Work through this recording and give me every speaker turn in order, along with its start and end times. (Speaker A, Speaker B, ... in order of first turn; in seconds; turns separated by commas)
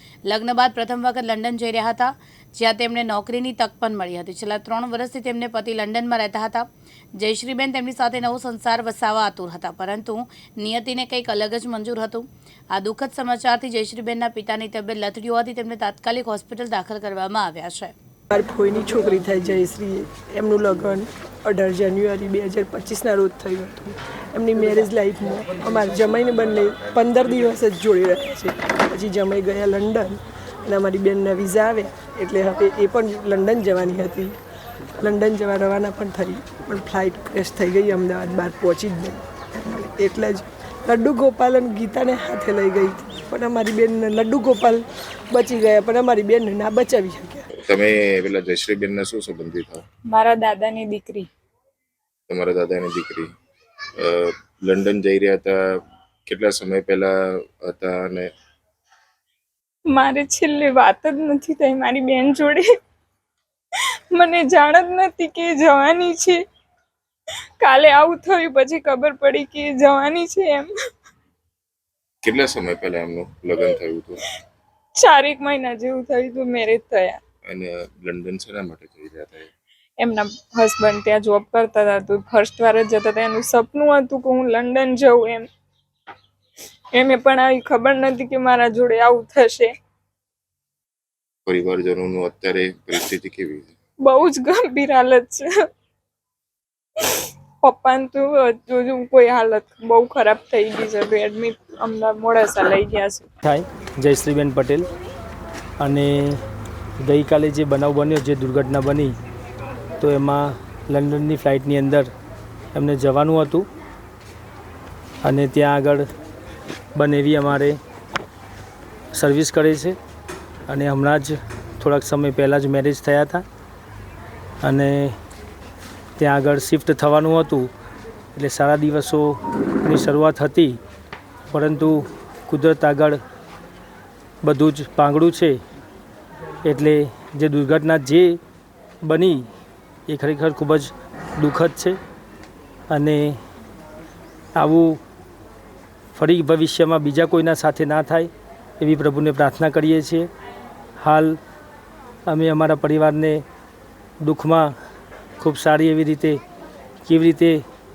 Speaker A: 0.2-17.9, Speaker B: 18.3-34.3, Speaker B: 35.0-47.5, Speaker C: 47.7-49.8, Speaker D: 50.1-51.3, Speaker C: 52.3-53.3, Speaker C: 54.0-55.6, Speaker C: 56.2-58.3, Speaker D: 59.9-62.7, Speaker D: 64.1-66.4, Speaker D: 67.6-70.7, Speaker C: 72.2-74.2, Speaker D: 75.0-77.2, Speaker C: 77.4-79.5, Speaker D: 80.0-85.5, Speaker D: 86.9-89.7, Speaker C: 91.5-93.7, Speaker D: 94.0-95.5, Speaker D: 97.0-103.3, Speaker E: 103.4-104.9, Speaker E: 105.8-106.4, Speaker E: 107.0-109.1, Speaker E: 110.0-112.1, Speaker E: 112.7-113.7, Speaker E: 115.2-116.0, Speaker E: 116.9-117.8, Speaker E: 119.1-120.0, Speaker E: 120.7-123.4, Speaker E: 124.6-125.2, Speaker E: 126.2-127.7, Speaker E: 128.3-130.8, Speaker E: 131.5-133.2, Speaker E: 134.4-135.6, Speaker E: 136.6-138.4, Speaker E: 139.0-139.4, Speaker E: 140.1-142.0, Speaker E: 142.9-143.3, Speaker E: 144.5-145.0, Speaker E: 146.1-150.3, Speaker E: 151.0-151.4, Speaker E: 152.3-153.4, Speaker E: 154.2-154.7, Speaker E: 155.4-156.4, Speaker E: 157.1-157.6